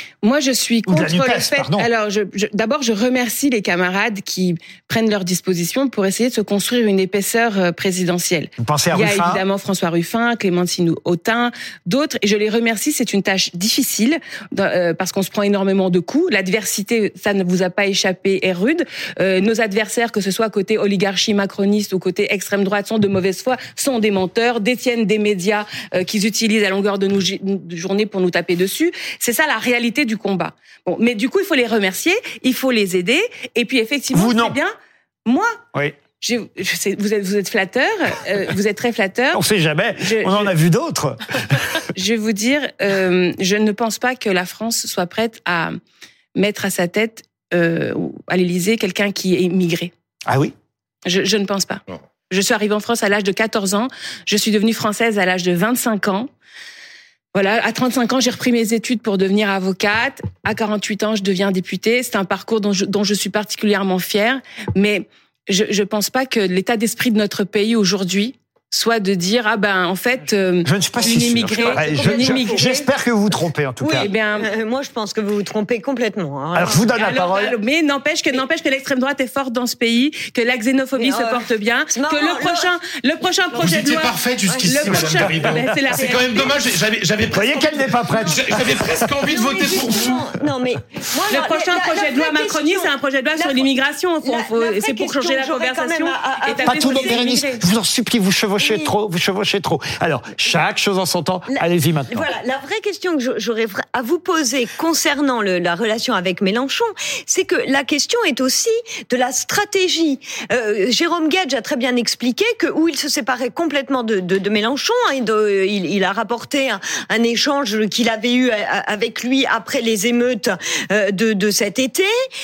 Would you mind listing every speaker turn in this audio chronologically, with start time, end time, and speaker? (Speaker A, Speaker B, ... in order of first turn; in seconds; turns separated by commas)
Speaker A: 0.2-34.7, Speaker B: 0.9-1.9, Speaker B: 8.6-9.4, Speaker B: 34.1-34.5, Speaker A: 35.2-35.6, Speaker A: 36.2-39.4, Speaker B: 39.3-41.9, Speaker A: 40.0-40.5, Speaker A: 42.0-45.8, Speaker A: 46.4-49.9, Speaker B: 50.3-50.5, Speaker A: 51.0-56.3, Speaker A: 57.3-72.9, Speaker B: 70.6-74.1, Speaker C: 71.5-72.7, Speaker C: 73.8-76.9, Speaker A: 73.9-74.5, Speaker B: 76.5-77.6, Speaker A: 76.9-86.5, Speaker C: 81.0-82.7, Speaker D: 83.5-90.3, Speaker C: 83.5-85.2, Speaker C: 86.0-86.5, Speaker B: 87.3-89.1, Speaker C: 88.5-93.7, Speaker A: 91.3-97.6, Speaker C: 94.2-97.4, Speaker B: 96.6-102.3, Speaker C: 98.6-99.0, Speaker C: 101.5-122.1